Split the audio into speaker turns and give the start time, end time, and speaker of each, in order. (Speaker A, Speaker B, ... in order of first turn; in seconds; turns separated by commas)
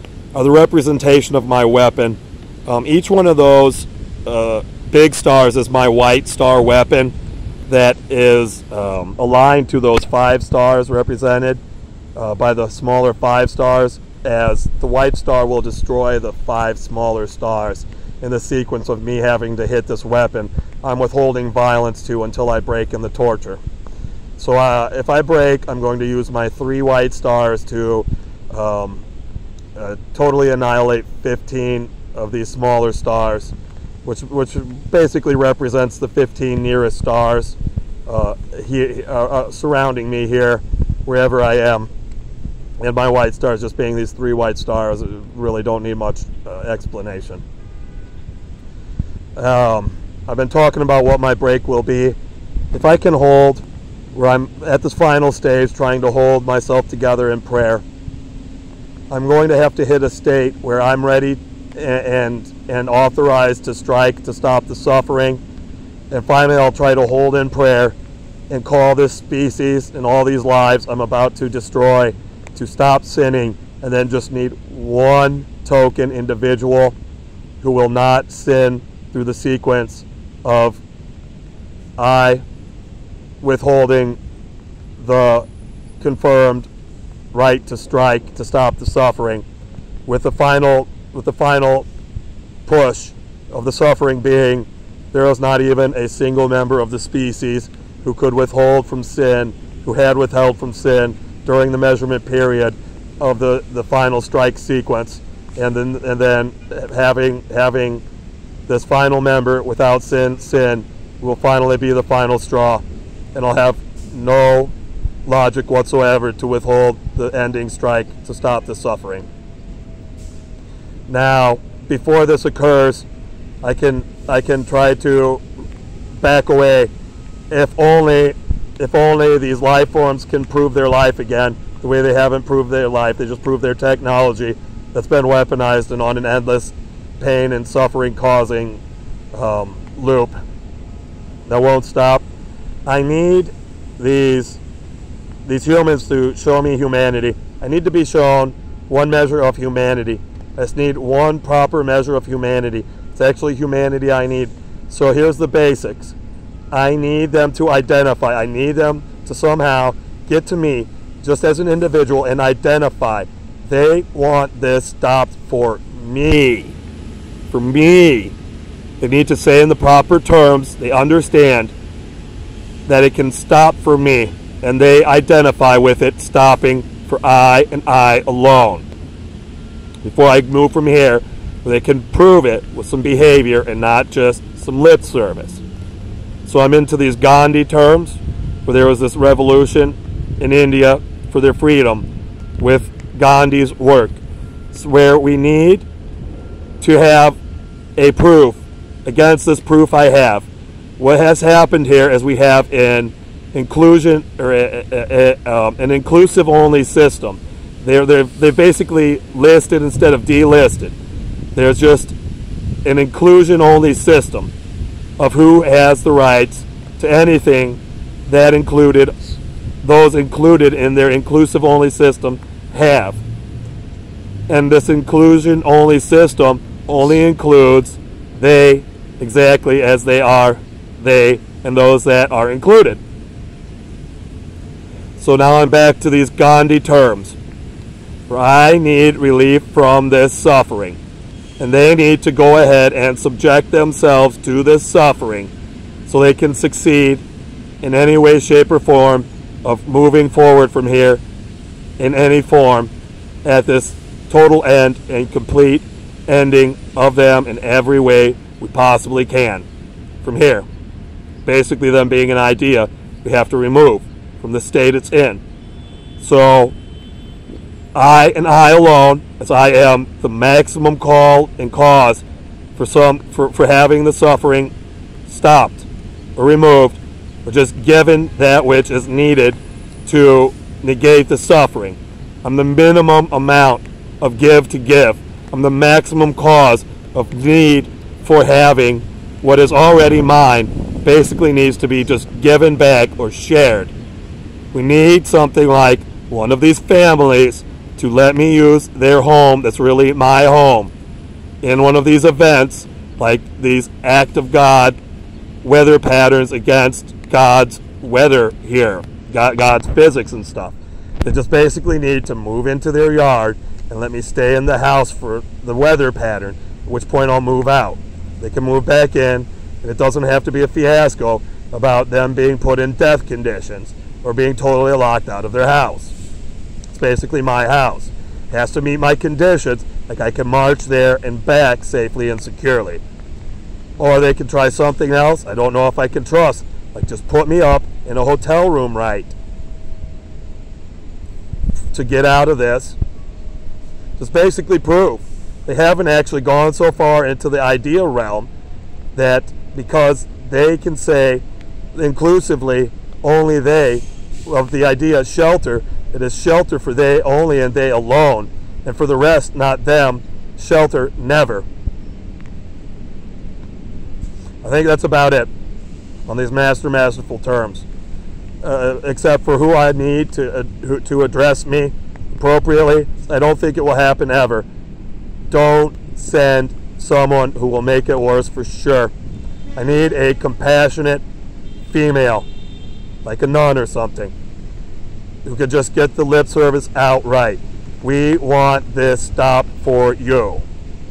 Speaker A: 0.3-7.1, Speaker A: 7.7-11.6, Speaker A: 12.1-23.6, Speaker A: 24.4-29.0, Speaker A: 29.7-33.5, Speaker A: 34.0-41.9, Speaker A: 42.8-47.4, Speaker A: 49.4-52.1, Speaker A: 52.7-57.8, Speaker A: 59.1-65.4, Speaker A: 66.1-68.0, Speaker A: 68.5-76.9, Speaker A: 77.6-80.8, Speaker A: 82.0-82.4, Speaker A: 83.4-84.2, Speaker A: 85.0-85.5, Speaker A: 86.0-86.7, Speaker A: 87.3-89.4, Speaker A: 90.0-91.9, Speaker A: 92.7-108.0, Speaker A: 108.7-112.8, Speaker A: 113.3-114.7, Speaker A: 115.2-119.3, Speaker A: 121.1-123.0, Speaker A: 123.6-125.4, Speaker A: 126.1-126.9, Speaker A: 127.5-138.8, Speaker A: 139.3-140.3, Speaker A: 141.5-142.2, Speaker A: 142.8-144.6, Speaker A: 145.4-156.1, Speaker A: 156.7-166.8, Speaker A: 167.5-168.3, Speaker A: 169.0-171.7, Speaker A: 172.8-178.8, Speaker A: 180.0-185.6, Speaker A: 186.4-192.1, Speaker A: 192.6-194.2, Speaker A: 194.7-195.8, Speaker A: 196.8-197.4, Speaker A: 197.9-200.5, Speaker A: 201.0-210.9, Speaker A: 211.5-212.1, Speaker A: 212.8-214.5, Speaker A: 215.2-219.2, Speaker A: 219.8-223.2, Speaker A: 224.5-233.0, Speaker A: 235.2-237.4, Speaker A: 238.3-241.0, Speaker A: 241.6-245.5, Speaker A: 246.1-247.2, Speaker A: 247.8-251.2, Speaker A: 252.0-252.9, Speaker A: 253.4-259.6, Speaker A: 260.2-260.6, Speaker A: 261.4-265.4, Speaker A: 266.2-266.7, Speaker A: 267.9-272.2, Speaker A: 272.8-274.7, Speaker A: 275.3-293.9, Speaker A: 294.7-300.9, Speaker A: 301.6-305.0, Speaker A: 305.6-326.1, Speaker A: 326.9-333.0, Speaker A: 334.0-339.3, Speaker A: 341.9-343.0, Speaker A: 344.2-348.5, Speaker A: 349.1-361.6, Speaker A: 364.6-365.5, Speaker A: 366.3-367.9, Speaker A: 368.6-374.7, Speaker A: 375.5-379.1, Speaker A: 379.8-381.2, Speaker A: 381.9-382.5, Speaker A: 383.2-384.3, Speaker A: 385.4-390.6